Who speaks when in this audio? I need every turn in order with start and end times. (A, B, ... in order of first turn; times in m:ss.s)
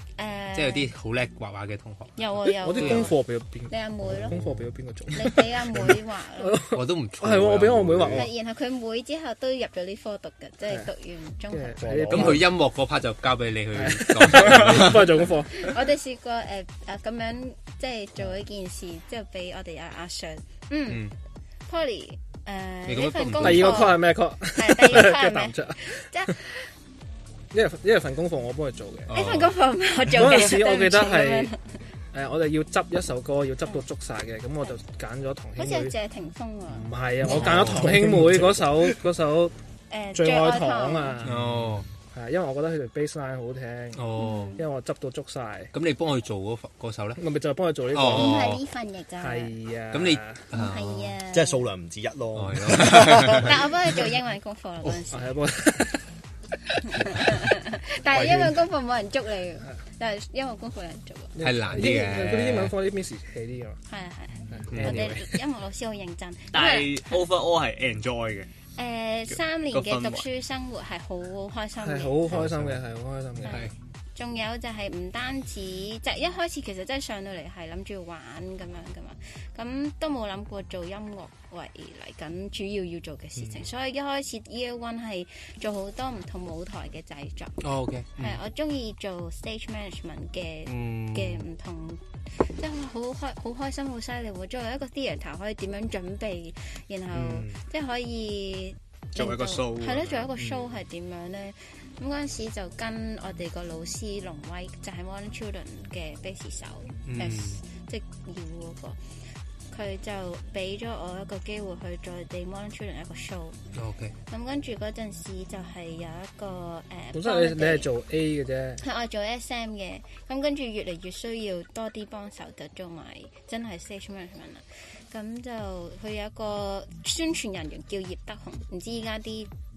0:00.2-0:00.9 A
0:00.5-0:02.2 B
0:02.2-0:04.4 A
0:02.5-0:08.3 C
0:02.8-0:03.1 B
0:04.3-0:04.7 B
0:05.1-0:06.6 A
0:06.7-0:08.3 B
0:08.1-0:12.1 A
0:11.5-0:12.5 C
0:11.8-0:12.5 D
0:12.1-0:15.2 B
0:13.7-0:15.7 C
0:15.5-0:21.1 A
0:20.9-0:21.1 B
0:21.7-0:26.7 A
0:22.9-0:23.9 B
0:23.4-0:26.3 C
0:27.5-0:29.1 C
0:29.1-0:29.5 B
0:29.1-0:31.6 A
0:30.1-0:31.5 C
0:32.1-0:35.9 C
0:35.6-0:36.9 A
0:36.8-0:39.5 C
0:37.2-0:38.0 B
0:37.4-0:37.8 A
0:39.9-0:41.2 A
0:40.1-0:41.4 C
0:41.2-0:41.9 B
0:42.1-0:45.7 C
0:44.0-0:44.5 B
0:44.2-0:44.6 A
0:45.7-0:47.2 B
0:47.2-0:48.4 C
0:47.9-0:48.6 B
0:48.1-0:49.5 A
0:49.2-0:50.4 C
0:49.9-0:51.1 B
0:50.5-0:51.7 A
0:51.3-0:53.5 D
0:52.3-0:53.5 B
0:53.2-0:55.4 A
0:55.1-0:56.1 C
0:56.9-1:01.4 A
0:58.1-0:58.5 B
1:01.3-1:03.8 C
1:01.4-1:02.7 B
1:03.9-1:07.3 A
1:04.5-1:05.4 C
1:04.7-1:05.1 B
1:06.5-1:08.5 E
1:08.7-1:12.4 A
1:09.3-1:10.2 E
1:11.8-1:13.6 C
1:12.4-1:12.8 B
1:13.4-1:27.6 A
1:27.6-1:28.4 B
1:28.2-1:49.0 A
1:30.7-1:31.4 B
1:37.1-1:37.6 D
1:39.1-1:40.3 E
1:40.4-1:40.7 D
1:47.1-1:47.6 B
1:49.7-1:53.7 A
1:53.7-1:54.1 B
1:54.3-1:57.9 A
1:57.1-1:58.8 C
1:58.8-2:09.5 A